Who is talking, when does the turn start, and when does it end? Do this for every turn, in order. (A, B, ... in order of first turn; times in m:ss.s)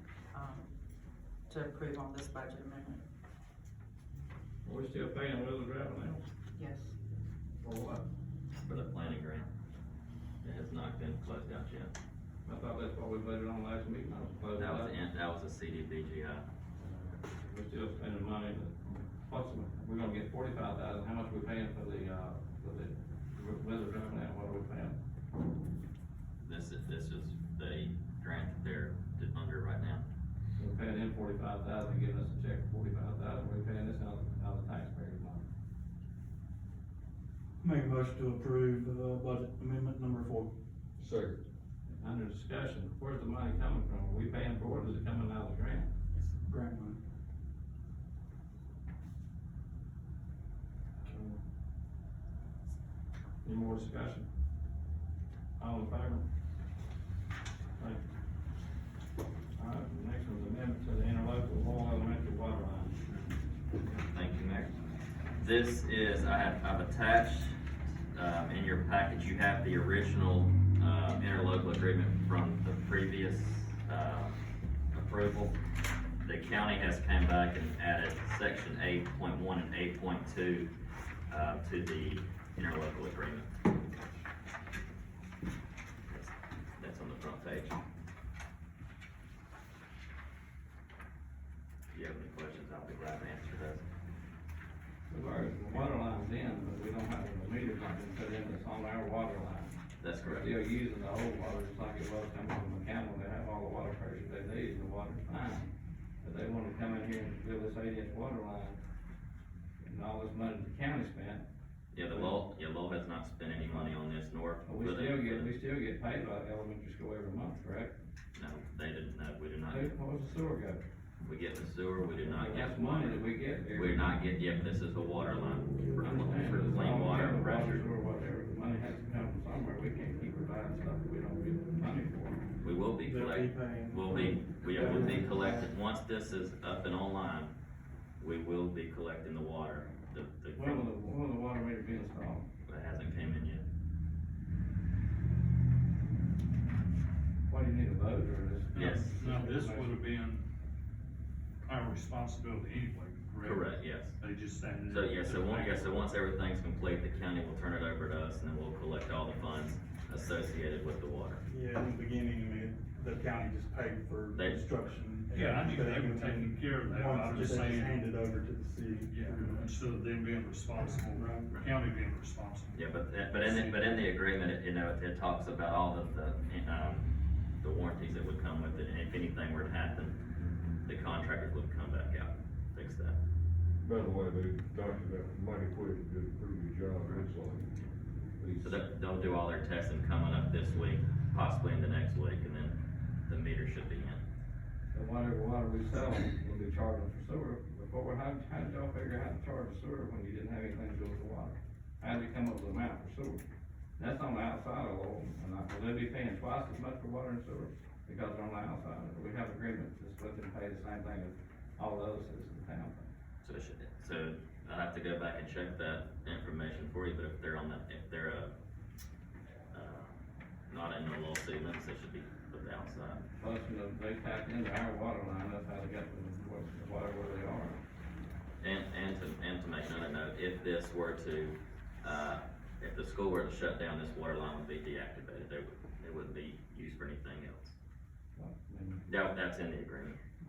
0:00.3-0:00.7 A
0:01.5-0:03.0 A
0:04.6-0:06.2 B
0:06.6-0:06.9 A
0:07.6-0:08.0 B
0:08.5-0:09.5 C
0:10.4-0:11.9 C
0:12.4-0:15.0 B
0:14.6-0:16.4 C
0:16.8-0:25.0 B
0:26.4-0:30.0 C
0:30.6-0:35.5 B
0:37.6-0:40.5 D
0:41.9-0:45.9 B
0:46.4-0:47.0 D
0:53.4-0:54.3 B
0:55.6-0:56.2 B
0:59.6-1:03.0 B
1:04.1-1:04.7 C
1:05.4-1:07.6 C
1:08.1-1:14.4 C
1:14.9-1:15.6 C
1:16.2-1:20.7 C
1:21.3-1:23.5 C
1:26.1-1:27.8 C
1:31.9-1:33.8 C
1:35.1-1:45.7 B
1:40.0-1:40.5 C
1:46.2-1:48.8 B
1:49.8-1:51.4 B
1:51.9-1:55.5 C
1:52.1-1:52.4 B
1:53.6-1:53.9 B
1:54.6-1:57.9 B
1:58.4-1:59.9 C
1:59.7-2:00.8 B
2:01.2-2:07.8 C
2:02.2-2:04.2 B
2:06.0-2:12.4 B
2:12.6-2:17.5 C
2:13.1-2:15.4 D
2:18.2-2:20.9 C
2:20.6-2:22.4 B
2:22.6-2:23.6 C
2:27.5-2:30.0 B
2:28.7-2:30.4 E
2:28.8-2:29.2 C
2:31.6-2:36.0 E
2:33.4-2:34.2 C
2:34.9-2:41.4 C
2:41.5-2:49.7 D
2:44.3-2:44.8 C
2:45.3-2:48.0 E
2:49.1-2:53.9 E
2:51.1-2:51.5 D
2:52.7-3:00.2 C
3:00.8-3:03.2 C
3:03.8-3:07.7 F
3:08.4-3:08.8 F
3:08.6-3:14.2 C
3:14.9-3:23.4 B
3:24.0-3:33.1 B
3:33.4-3:38.5 C
3:39.7-3:40.2 C
3:40.7-3:43.2 C
3:43.4-3:47.8 B
3:48.6-3:57.8 C
3:58.4-3:59.0 B
3:59.1-4:00.2 C